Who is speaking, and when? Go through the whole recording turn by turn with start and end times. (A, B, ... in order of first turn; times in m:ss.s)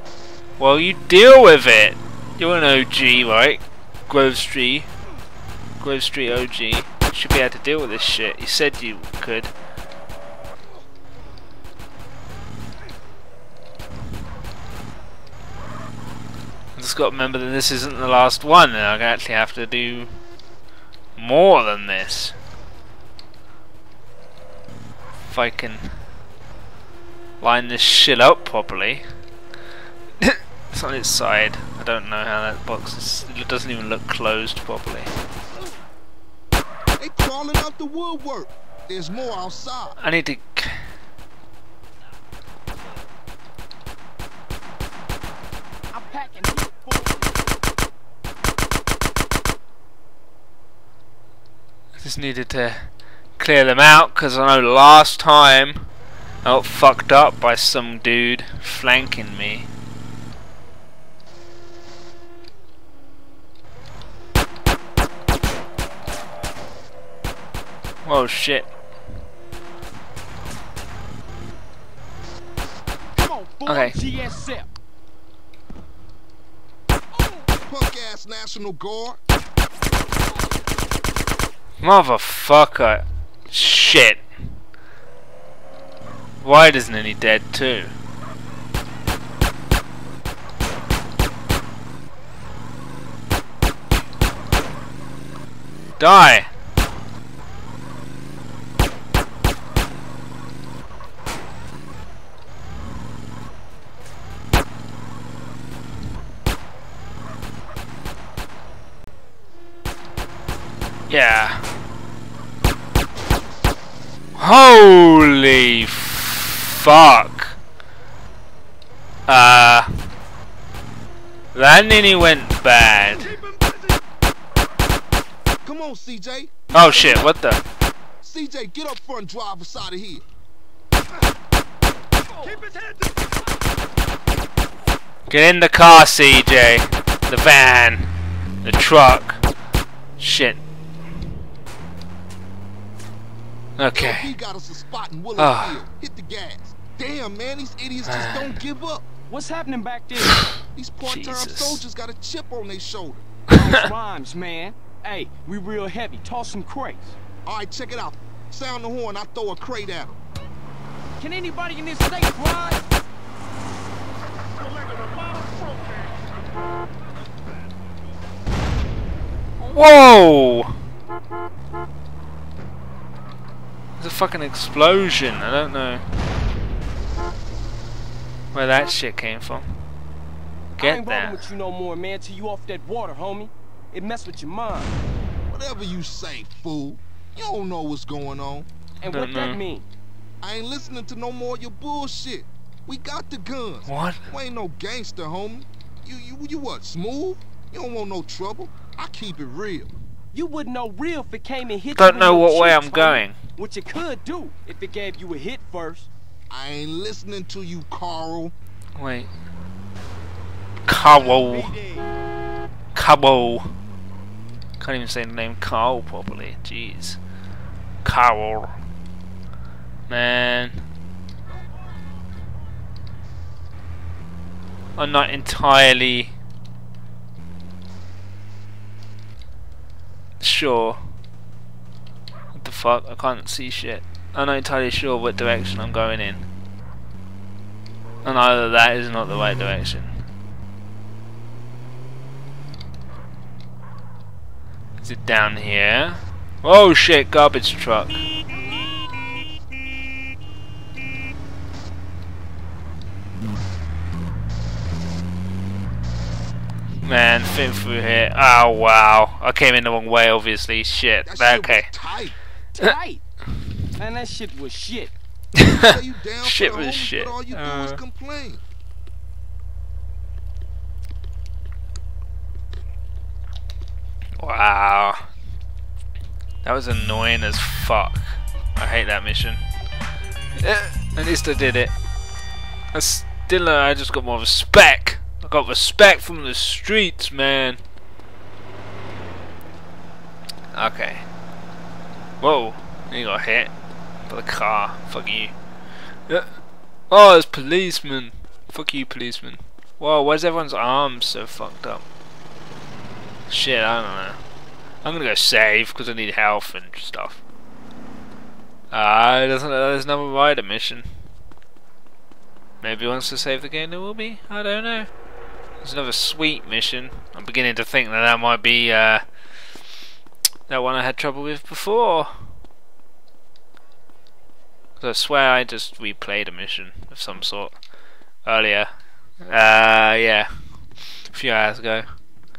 0:00.6-0:04.9 A
0:05.8-0:09.5 A
0:16.7-0:20.2 A
0:21.2-0:22.4 A
0:25.2-0:25.9 A
0:27.4-0:29.0 A
0:30.2-0:35.1 A
0:35.5-0:35.8 B
0:37.0-0:40.0 B
0:40.0-0:40.9 A
0:45.9-0:47.3 C
0:52.0-0:55.9 A
0:56.4-0:59.7 A
1:08.0-1:08.7 A
1:13.1-1:14.7 C
1:13.6-1:14.0 A
1:17.1-1:17.5 C
1:17.7-1:19.2 B
1:21.8-1:24.6 A
1:26.4-1:27.9 A
1:36.0-1:36.5 A
1:51.1-1:51.7 A
1:54.4-1:57.6 A
1:59.3-1:59.9 A
2:01.5-2:03.4 A
2:05.6-2:07.3 B
2:06.7-2:07.6 A
2:08.2-2:10.2 B
2:12.5-2:13.0 C
2:15.3-2:19.4 A
2:20.2-2:20.6 A
2:23.8-2:24.3 A
2:23.9-2:29.0 B
2:25.4-2:25.8 A
2:28.0-2:28.6 A
2:29.3-2:30.5 C
2:30.2-2:31.8 A
2:30.7-2:33.3 B
2:33.5-2:37.2 C
2:37.4-2:40.2 B
2:41.2-2:42.8 C
2:45.0-2:45.9 C
2:49.6-2:50.8 A
2:54.0-2:56.0 A
2:58.5-2:59.8 A
3:00.8-3:05.0 C
3:00.8-3:01.5 A
3:05.5-3:08.7 B
3:09.0-3:09.8 C
3:09.0-3:09.6 A
3:10.4-3:19.9 B
3:13.8-3:14.2 A
3:20.3-3:26.1 C
3:22.0-3:23.4 A
3:26.5-3:28.5 B
3:29.0-3:29.3 A
3:30.8-3:31.7 A
3:31.0-3:32.1 C
3:32.9-3:33.7 A
3:34.8-3:37.2 A
3:38.0-3:38.7 A
3:40.1-3:40.8 A
3:45.0-3:46.3 A
3:50.4-3:51.1 A
3:52.5-3:56.5 A
3:58.2-4:00.2 A
4:05.0-4:08.2 A
4:08.5-4:09.3 C
4:17.0-4:21.9 A
4:21.2-4:22.4 B
4:22.7-4:23.2 C
4:24.0-4:25.1 C
4:25.6-4:25.8 A
4:25.7-4:28.6 B
4:26.4-4:28.0 A
4:34.4-4:35.2 A
4:36.6-4:39.6 A
4:40.6-4:41.9 A
4:42.9-4:47.8 A
4:50.7-4:51.2 A
4:52.4-4:53.7 A
4:54.2-4:55.5 A
4:57.1-5:02.0 A
5:03.5-5:04.4 A
5:05.0-5:07.4 A
5:08.9-5:11.0 A
5:12.8-5:15.1 A
5:15.8-5:19.2 A
5:20.7-5:22.5 A
5:25.0-5:27.8 A
5:28.4-5:28.9 A
5:29.4-5:30.5 A
5:31.2-5:32.0 A